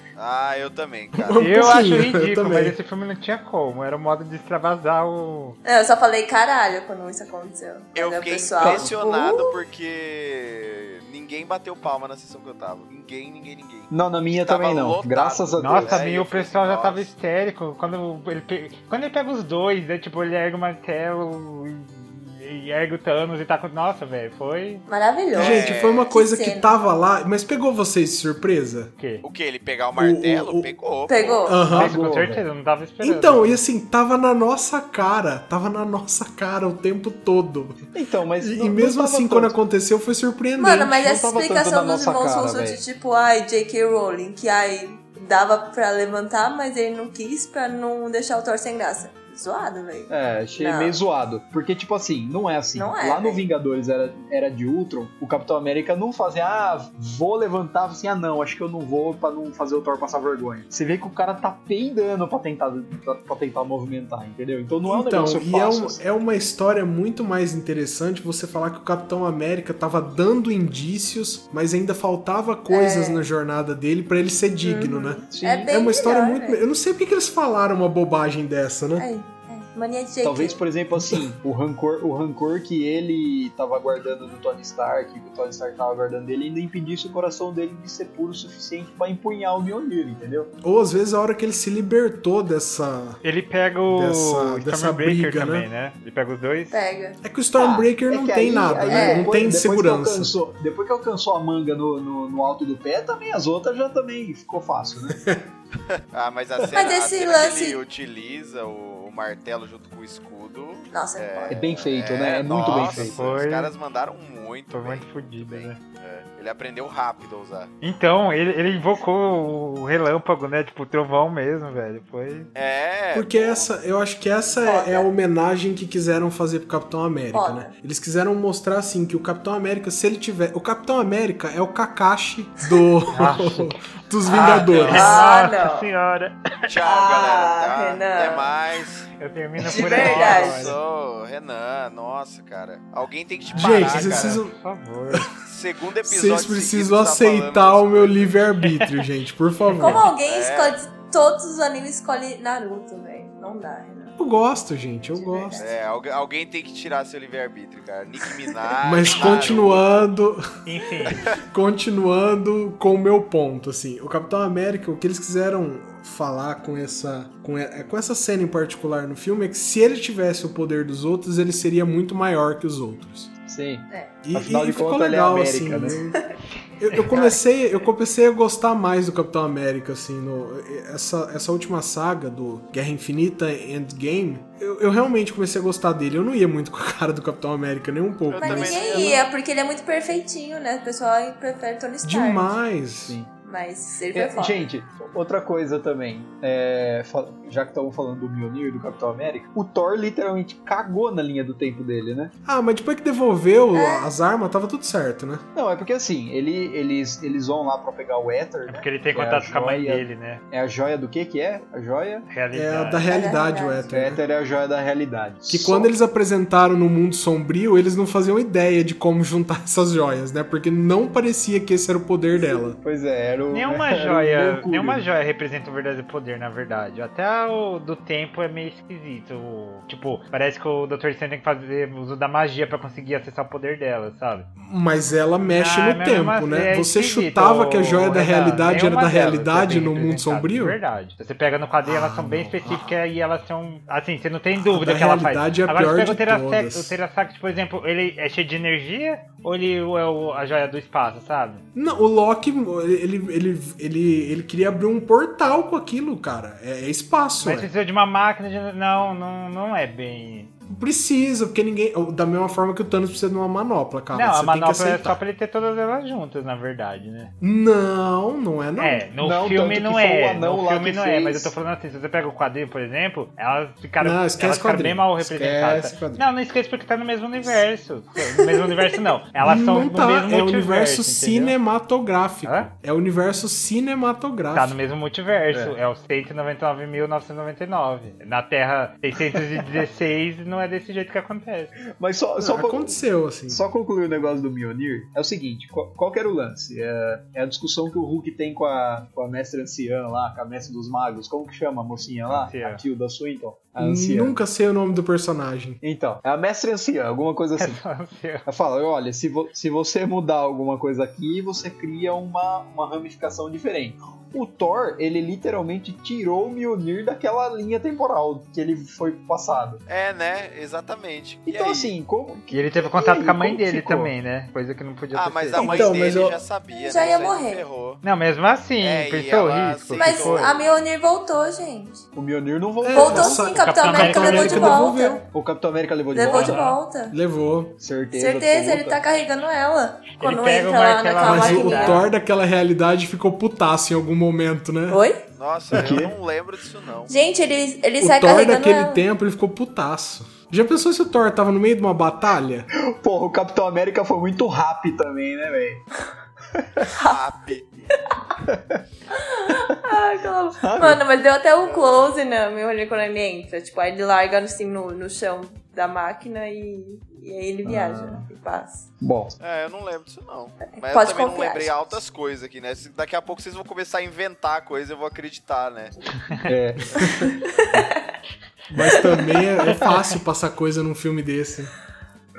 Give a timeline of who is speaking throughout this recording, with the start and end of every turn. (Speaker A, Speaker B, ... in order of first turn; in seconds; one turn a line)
Speaker A: 0.2-1.8
Speaker B: 1.2-2.8
Speaker C: 1.4-5.6
Speaker D: 5.7-9.6
Speaker A: 8.0-17.1
Speaker E: 8.6-9.0
Speaker E: 13.9-16.0
Speaker C: 15.6-24.9
Speaker D: 24.9-26.8
Speaker B: 25.3-28.9
Speaker A: 25.4-26.1
Speaker C: 29.0-29.2
Speaker A: 29.2-31.6
Speaker B: 29.9-30.7
Speaker D: 31.1-31.6
Speaker B: 31.4-32.0
Speaker E: 31.7-32.5
Speaker C: 31.7-33.6
Speaker B: 33.0-37.8
Speaker E: 38.0-39.6
Speaker B: 38.4-41.0
Speaker D: 40.6-51.0
Speaker E: 41.0-42.8
Speaker E: 50.1-66.0
Speaker D: 52.8-53.5
Speaker B: 64.9-79.1
Speaker D: 72.7-73.2
Speaker D: 74.6-76.6
Speaker E: 75.3-75.8
Speaker D: 79.0-80.6
Speaker E: 80.2-90.5
Speaker B: 81.0-81.2
Speaker B: 90.6-93.2
Speaker C: 93.2-96.7
Speaker B: 93.9-95.7
Speaker D: 96.7-97.9
Speaker B: 97.2-100.3
Speaker E: 98.1-105.2
Speaker D: 98.9-99.4
Speaker B: 105.2-105.5
Speaker A: 106.1-117.7
Speaker D: 106.7-107.8
Speaker D: 110.9-111.6
Speaker E: 111.5-113.2
Speaker C: 112.7-113.7
Speaker C: 114.7-115.8
Speaker C: 117.8-122.5
Speaker A: 122.5-123.7
Speaker B: 123.1-135.2
Speaker D: 124.6-125.1
Speaker D: 127.3-127.7
Speaker C: 133.1-136.7
Speaker A: 134.3-135.2
Speaker D: 134.9-135.9
Speaker A: 136.7-139.1
Speaker D: 136.8-138.6
Speaker C: 139.2-140.8
Speaker D: 139.7-140.7
Speaker A: 139.7-144.4
Speaker B: 140.0-140.7
Speaker C: 143.5-145.3
Speaker B: 143.6-144.5
Speaker A: 145.4-148.4
Speaker B: 146.0-150.1
Speaker D: 149.7-154.2
Speaker A: 150.2-150.8
Speaker B: 154.2-155.6
Speaker D: 155.2-155.7
Speaker A: 155.6-160.0
Speaker B: 158.8-160.4
Speaker C: 159.2-159.5
Speaker C: 160.7-161.3
Speaker A: 161.1-161.3
Speaker B: 161.2-173.3
Speaker E: 173.5-176.0
Speaker B: 174.2-176.2
Speaker B: 176.8-189.1
Speaker A: 188.3-189.2
Speaker D: 188.4-192.5
Speaker B: 192.0-193.2
Speaker E: 193.1-193.3
Speaker D: 193.4-194.7
Speaker E: 194.1-202.3
Speaker B: 202.4-205.4
Speaker D: 203.7-204.1
Speaker E: 205.6-212.3
Speaker C: 208.7-210.4
Speaker C: 212.3-213.1
Speaker B: 212.5-214.2
Speaker D: 213.1-213.9
Speaker E: 213.9-215.9
Speaker B: 215.5-222.8
Speaker E: 222.3-225.1
Speaker C: 223.5-234.5
Speaker B: 234.6-240.8
Speaker C: 235.4-251.6
Speaker B: 241.8-242.9
Speaker B: 244.6-246.9
Speaker B: 251.8-257.7
Speaker C: 257.4-260.5
Speaker B: 260.7-265.2
Speaker C: 264.1-267.3
Speaker B: 267.4-269.1
Speaker C: 268.8-281.6
Speaker E: 269.2-271.5
Speaker B: 274.0-276.2
Speaker B: 279.4-284.8
Speaker C: 284.5-291.8
Speaker E: 285.5-285.8
Speaker E: 292.0-293.0
Speaker B: 292.4-293.6
Speaker E: 293.5-304.4
Speaker C: 302.3-302.8
Speaker B: 303.8-305.8
Speaker E: 305.8-307.8
Speaker C: 307.6-308.5
Speaker E: 308.5-319.8
Speaker A: 319.9-321.9
Speaker E: 321.5-324.1
Speaker C: 322.5-325.9
Speaker A: 325.1-328.0
Speaker B: 325.6-326.4
Speaker D: 326.7-327.6
Speaker C: 328.0-330.5
Speaker A: 328.8-330.8
Speaker D: 329.9-332.1
Speaker E: 332.1-333.5
Speaker B: 332.8-335.2
Speaker D: 332.9-335.3
Speaker C: 333.5-334.9
Speaker E: 335.3-336.6
Speaker D: 336.1-337.1
Speaker C: 336.3-336.8
Speaker B: 337.1-337.8
Speaker E: 337.8-339.0
Speaker D: 338.1-342.1
Speaker C: 340.2-342.0
Speaker B: 341.2-345.0
Speaker D: 344.9-345.2
Speaker A: 345.4-347.1
Speaker E: 345.7-346.1
Speaker D: 347.1-349.0
Speaker B: 348.0-352.7
Speaker E: 352.7-355.9
Speaker E: 356.6-356.9
Speaker D: 356.9-357.2
Speaker A: 357.0-357.7
Speaker E: 358.5-358.8
Speaker D: 359.1-368.9
Speaker E: 359.5-359.8
Speaker E: 360.6-361.0
Speaker A: 361.6-362.1
Speaker E: 367.6-368.3
Speaker E: 369.0-369.4
Speaker A: 369.4-375.9
Speaker D: 370.6-372.0
Speaker E: 376.4-377.1
Speaker B: 376.9-377.3
Speaker D: 377.0-378.1
Speaker B: 378.7-381.7
Speaker D: 378.8-379.9